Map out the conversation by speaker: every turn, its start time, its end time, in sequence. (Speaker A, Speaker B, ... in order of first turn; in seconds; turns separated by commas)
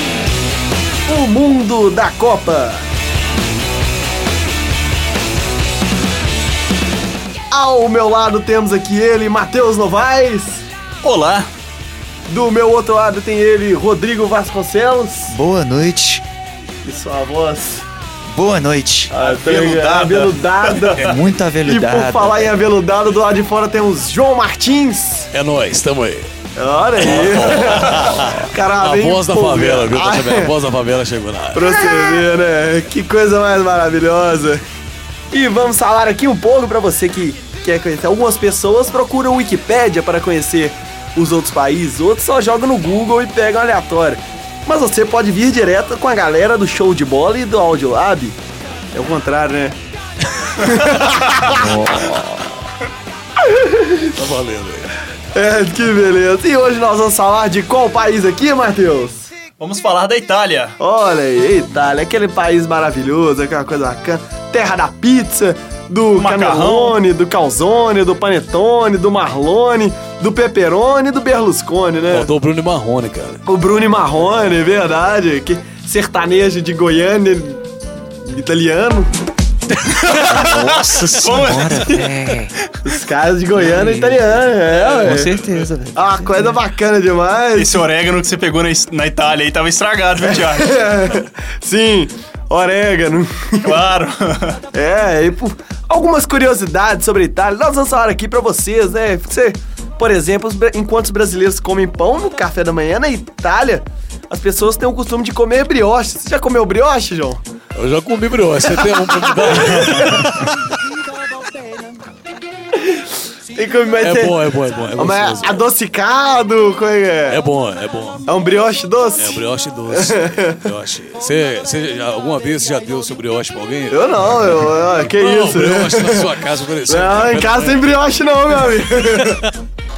Speaker A: 1.1-2.9, Speaker A: 7.5-10.6, Speaker B: 11.0-11.5, Speaker A: 12.3-15.4, Speaker C: 15.3-16.2, Speaker A: 16.9-17.9, Speaker C: 18.3-19.1, Speaker A: 19.1-25.3, Speaker B: 19.2-21.1, Speaker C: 21.0-22.5, Speaker D: 25.3-26.3, Speaker A: 26.6-30.5, Speaker D: 27.0-31.8, Speaker A: 31.5-34.6, Speaker A: 35.3-48.4, Speaker A: 48.9-49.8, Speaker A: 50.4-51.6, Speaker C: 51.6-52.2, Speaker D: 51.7-52.2, Speaker A: 53.4-54.1, Speaker D: 54.1-55.0, Speaker A: 55.3-59.3, Speaker B: 59.6-60.8, Speaker A: 60.8-72.3, Speaker B: 66.2-67.0, Speaker D: 72.1-73.4, Speaker A: 73.5-77.6, Speaker A: 78.2-79.1, Speaker C: 80.1-82.5, Speaker B: 80.5-82.7, Speaker A: 82.8-85.4, Speaker C: 83.6-86.6, Speaker A: 85.9-87.8, Speaker B: 87.6-90.9, Speaker A: 90.3-93.8, Speaker B: 93.6-94.6, Speaker A: 94.7-107.4, Speaker D: 107.8-110.6, Speaker A: 108.7-110.5, Speaker A: 112.8-117.4, Speaker D: 114.0-115.7, Speaker D: 117.3-118.2, Speaker A: 118.3-120.7, Speaker D: 119.2-127.8, Speaker A: 123.9-129.4, Speaker D: 128.7-129.5